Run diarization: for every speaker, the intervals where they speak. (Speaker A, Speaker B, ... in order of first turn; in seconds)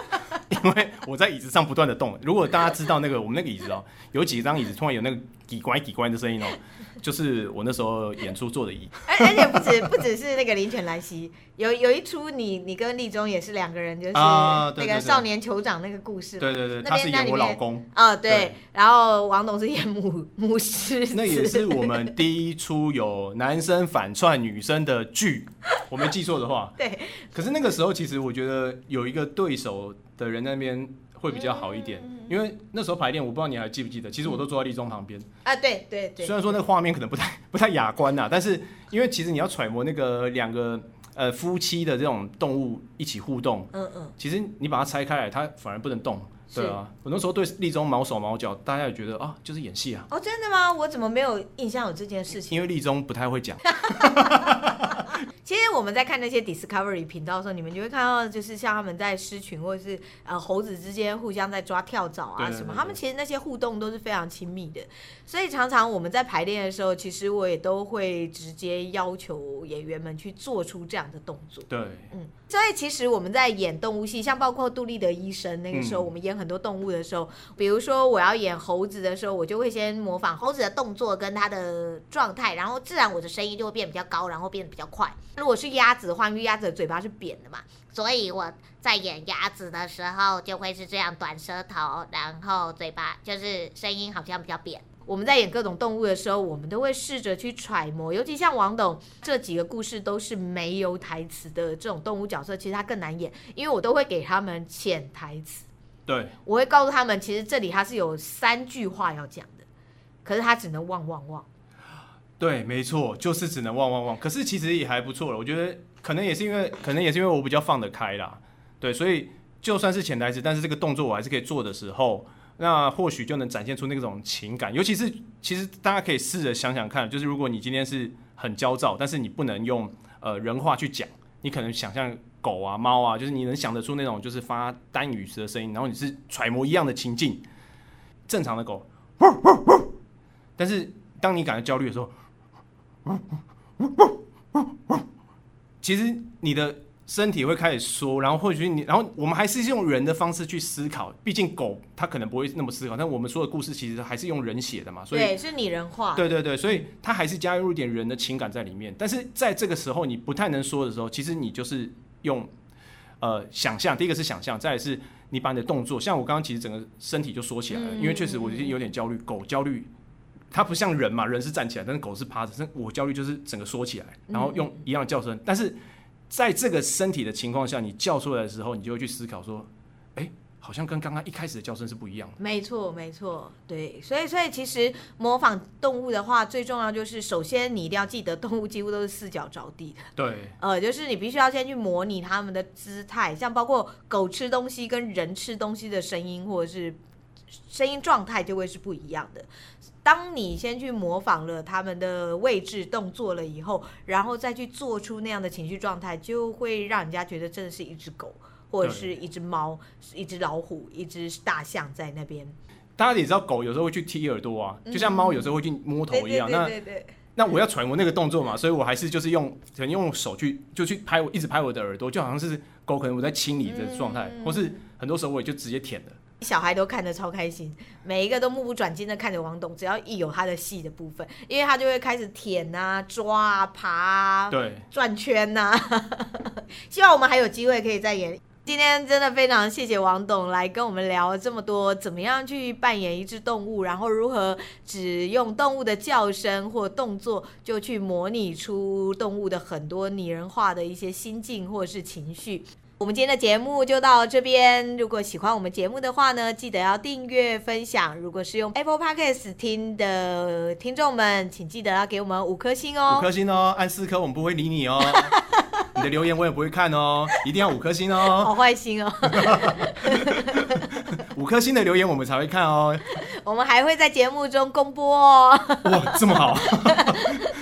Speaker A: 0.5-9.3, 14.1-15.2, 16.4-18.6, 21.1-26.8, 27.3-35.3, 36.2-50.1, 52.5-55.1, 62.4-63.0, 71.7-72.1, 75.7-76.1, 106.1-106.3, 112.4-137.4, 138.3-139.9, 140.6-142.1, 143.1-145.0, 145.8-155.3, 156.1-162.5, 163.2-169.9, 170.5-175.8, 176.3-182.4, 190.2-190.5, 208.8-209.1, 213.0-216.7, 217.3-226.2, 234.5-234.8, 263.1-265.3, 265.9-268.5, 269.3-270.7, 271.2-273.0, 275.8-277.4
Speaker B: 9.1-21.9, 26.8-27.3, 31.3-32.3, 35.4-36.6, 43.7-44.1, 46.5-46.8, 50.1-52.6, 53.8-54.5, 55.4-87.7, 95.0-105.6, 106.5-109.7, 110.2-111.5, 155.1-156.8, 167.7-168.7, 174.3-174.8, 182.4-190.1, 190.6-197.0, 197.7-199.5, 200.0-212.5, 214.9-215.5, 216.1-217.1, 223.6-224.8, 226.4-263.3, 268.4-270.6, 273.4-276.3, 276.9-277.5
Speaker C: 87.9-94.8